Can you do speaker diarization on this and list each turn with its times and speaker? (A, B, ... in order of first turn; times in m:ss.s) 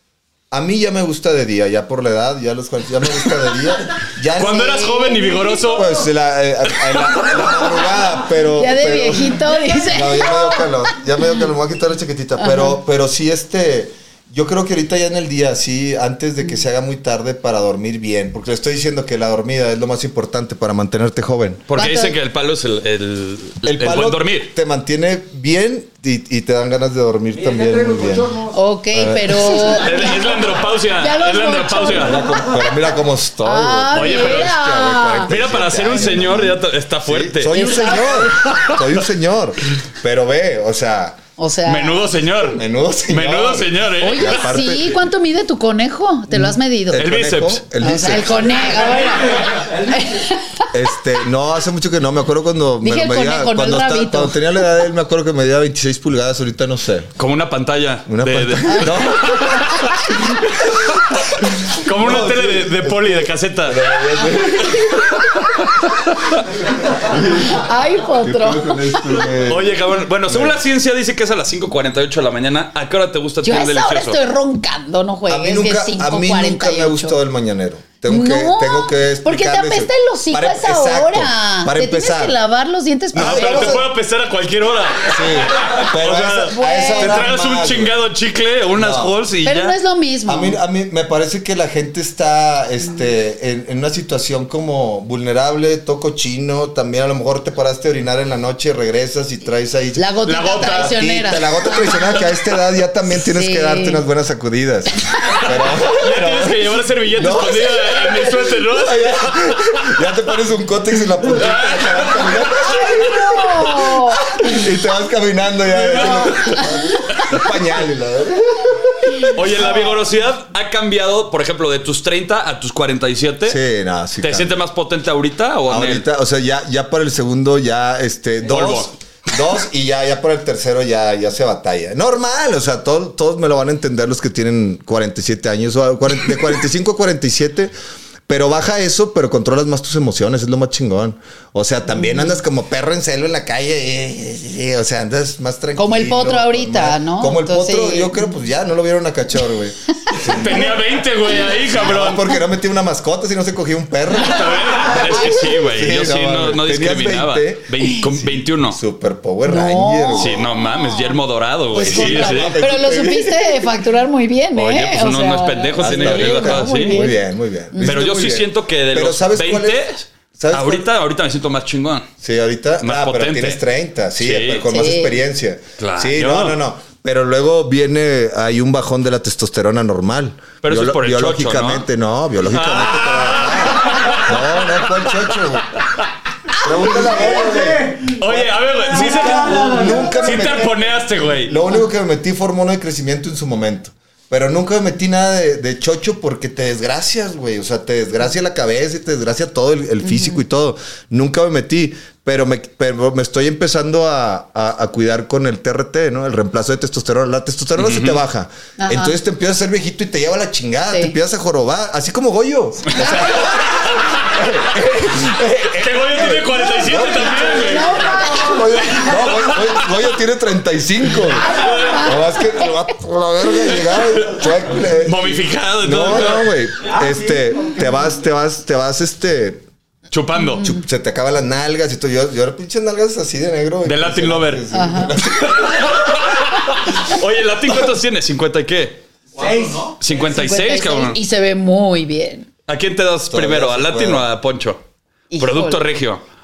0:00.5-0:04.8 A
0:04.4-0:06.0 B
0:04.4-0:05.8 C
0:05.7-0:21.7 A
0:06.9-0:07.3 B
0:08.6-0:11.4 C
0:12.4-0:12.8 C
0:21.7-0:24.5 B
0:21.8-0:22.2 C
0:23.6-0:29.8 A
0:28.5-0:32.7 C
0:29.6-0:32.2 B
0:31.9-0:41.2 A
0:33.4-0:35.4 C
0:33.9-0:34.6 B
0:35.3-0:38.8 B
0:37.5-0:38.6 C
0:41.4-0:42.1 C
0:41.6-0:44.6 B
0:42.5-0:45.0 A
0:44.0-0:47.1 C
0:46.3-0:48.9 A
0:47.0-0:47.6 B
0:47.8-0:50.7 C
0:50.7-0:57.1 A
0:52.8-0:54.5 C
0:57.2-1:06.4 B
0:58.1-0:59.7 A
1:00.6-1:01.2 A
1:01.7-1:05.4 A
1:06.3-1:07.7 A
1:07.4-1:09.3 C
1:08.2-1:09.7 A
1:09.4-1:14.2 B
1:10.3-1:10.6 A
1:13.4-1:17.2 C
1:15.3-1:22.4 A
1:18.1-1:23.9 C
1:23.1-1:23.8 A
1:23.1-1:29.8 B
1:25.1-1:28.0 A
1:26.4-1:27.4 C
1:28.8-1:29.2 A
1:29.4-1:30.6 C
1:30.3-1:59.8 A
1:40.0-1:42.2 C
1:40.2-1:41.0 B
1:43.2-1:44.0 C
1:45.4-1:50.0 B
1:51.3-1:53.1 B
1:52.9-1:54.3 C
1:55.7-1:57.3 B
1:59.3-2:03.6 B
1:59.6-1:59.9 C
2:03.4-2:04.6 A
2:04.2-2:06.1 B
2:05.7-2:17.7 A
2:08.4-2:08.9 B
2:18.3-2:30.8 A
2:21.9-2:22.3 C
2:25.8-2:28.3 C
2:30.2-2:32.3 B
2:31.6-2:40.5 A
2:34.2-2:38.8 B
2:34.6-2:35.8 C
2:39.5-2:48.0 C
2:40.2-2:42.6 B
2:41.8-2:43.7 A
2:44.6-2:47.0 B
2:45.8-2:49.8 A
2:47.8-2:52.1 B
2:50.4-2:50.9 A
2:52.2-3:05.7 A
2:52.8-2:53.6 B
2:54.2-2:54.6 B
2:54.7-2:55.2 C
2:55.8-2:56.6 B
3:00.6-3:01.9 B
3:02.4-3:06.1 B
3:06.6-3:07.7 C
3:06.6-3:10.9 A
3:08.0-3:11.5 B
3:09.0-3:10.0 C
3:11.4-3:49.6 A
3:20.0-3:20.4 C
3:27.8-3:28.2 B
3:28.8-3:29.1 C
3:32.9-3:34.5 B
3:33.0-3:33.5 C
3:35.7-3:38.0 B
3:37.1-3:39.3 C
3:38.8-3:39.9 B
3:41.4-3:42.9 C
3:41.4-3:42.2 B
3:43.9-3:46.6 B
3:50.1-3:50.7 B
3:50.4-3:50.8 C
3:50.6-3:56.0 A
3:53.8-3:54.6 B
3:54.7-3:55.2 C
3:55.3-3:59.0 B
3:59.4-3:59.9 A
3:59.9-4:01.2 B
4:00.2-4:02.5 C
4:02.7-4:04.8 B
4:03.3-4:04.3 A
4:05.3-4:05.8 C
4:05.4-4:06.2 B